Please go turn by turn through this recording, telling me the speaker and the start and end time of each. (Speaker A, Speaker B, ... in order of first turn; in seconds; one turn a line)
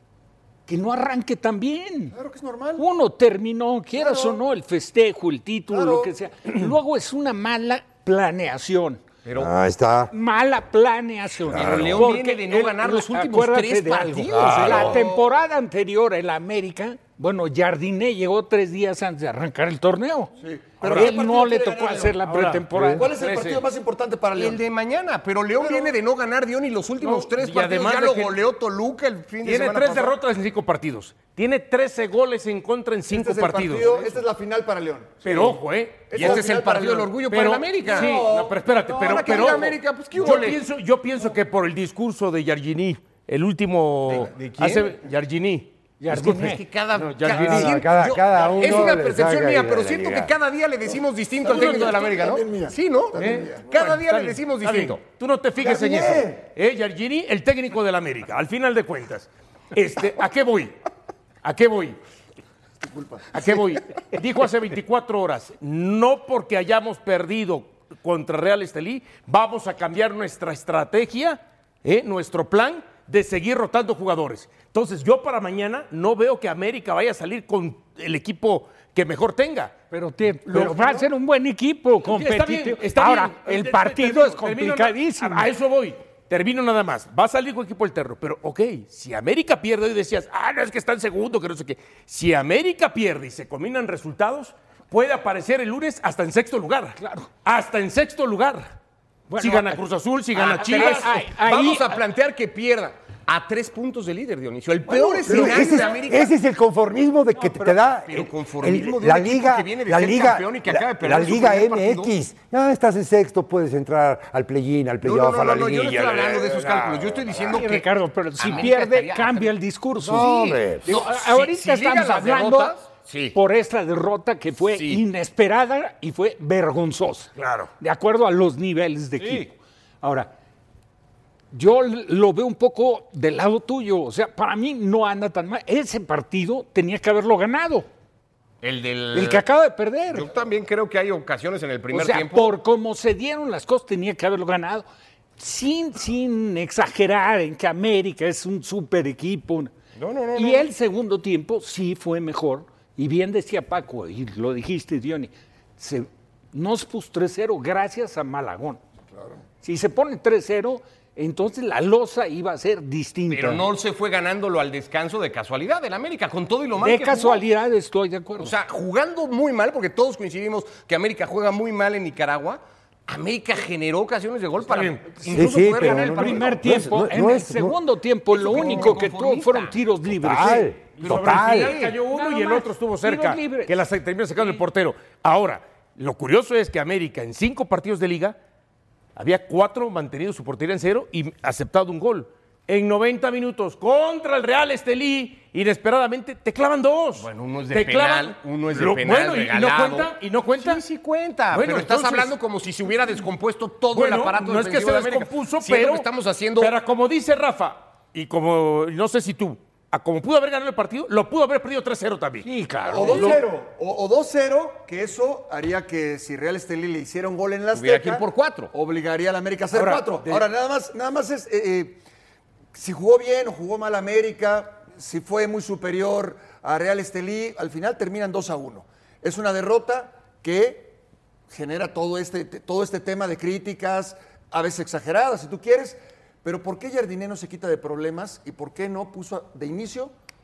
Speaker A: 0.7-2.1
Speaker B: 2.1-2.8
Speaker A: 2.8-9.0
Speaker B: 4.0-4.4
Speaker B: 5.7-6.1
Speaker C: 9.2-9.5
Speaker D: 9.3-10.1
Speaker A: 10.1-23.1
Speaker D: 11.4-12.1
Speaker C: 11.6-15.0
Speaker D: 14.3-15.0
Speaker B: 14.7-15.3
Speaker B: 20.4-22.2
Speaker E: 22.3-22.7
Speaker B: 22.9-24.6
Speaker C: 23.2-23.6
Speaker C: 24.4-30.2
Speaker B: 25.6-26.0
Speaker E: 27.0-28.4
Speaker E: 29.4-34.1
Speaker B: 33.1-37.2
Speaker E: 35.2-36.4
Speaker C: 36.1-40.6
Speaker E: 37.3-47.7
Speaker B: 37.8-39.7
Speaker C: 44.1-44.8
Speaker A: 46.0-46.6
Speaker C: 46.2-55.0
Speaker D: 47.3-50.3
Speaker B: 51.4-53.6
Speaker E: 51.5-52.1
Speaker E: 53.2-60.8
Speaker B: 55.7-56.4
Speaker E: 61.4-62.0
Speaker B: 62.8-63.6
Speaker E: 63.3-79.8
Speaker A: 79.9-85.5
Speaker E: 80.5-81.1
Speaker E: 82.0-98.8
Speaker A: 97.0-97.3
Speaker A: 99.3-99.8
Speaker E: 99.4-101.1
Speaker C: 100.3-106.3
Speaker A: 100.5-102.0
Speaker B: 104.9-106.0
Speaker D: 105.2-117.6
Speaker C: 107.7-112.1
Speaker C: 115.0-117.9
Speaker A: 117.5-122.7
Speaker C: 118.4-119.5
Speaker D: 120.0-120.9
Speaker C: 120.2-123.4
Speaker A: 123.3-130.3
Speaker C: 124.7-125.0
Speaker E: 127.4-127.7
Speaker A: 131.5-137.9
Speaker C: 138.6-139.4
Speaker A: 139.1-140.3
Speaker C: 140.1-142.6
Speaker A: 141.9-144.8
Speaker A: 145.4-149.7
Speaker C: 149.9-150.7
Speaker A: 150.3-158.8
Speaker A: 159.6-163.7
Speaker C: 163.3-167.4
Speaker A: 166.8-168.5
Speaker C: 168.4-176.6
Speaker D: 175.3-177.8
Speaker A: 175.8-180.7
Speaker C: 178.3-179.8
Speaker D: 180.2-181.8
Speaker E: 181.0-188.4
Speaker C: 181.0-182.0
Speaker A: 182.1-183.8
Speaker E: 189.2-200.8
Speaker C: 197.2-206.8
Speaker E: 201.5-202.3
Speaker E: 203.9-213.4
Speaker A: 212.4-213.4
Speaker B: 212.9-222.0
Speaker C: 217.7-218.7
Speaker A: 219.8-220.0
Speaker E: 219.8-220.4
Speaker B: 222.7-231.0
Speaker B: 231.5-240.1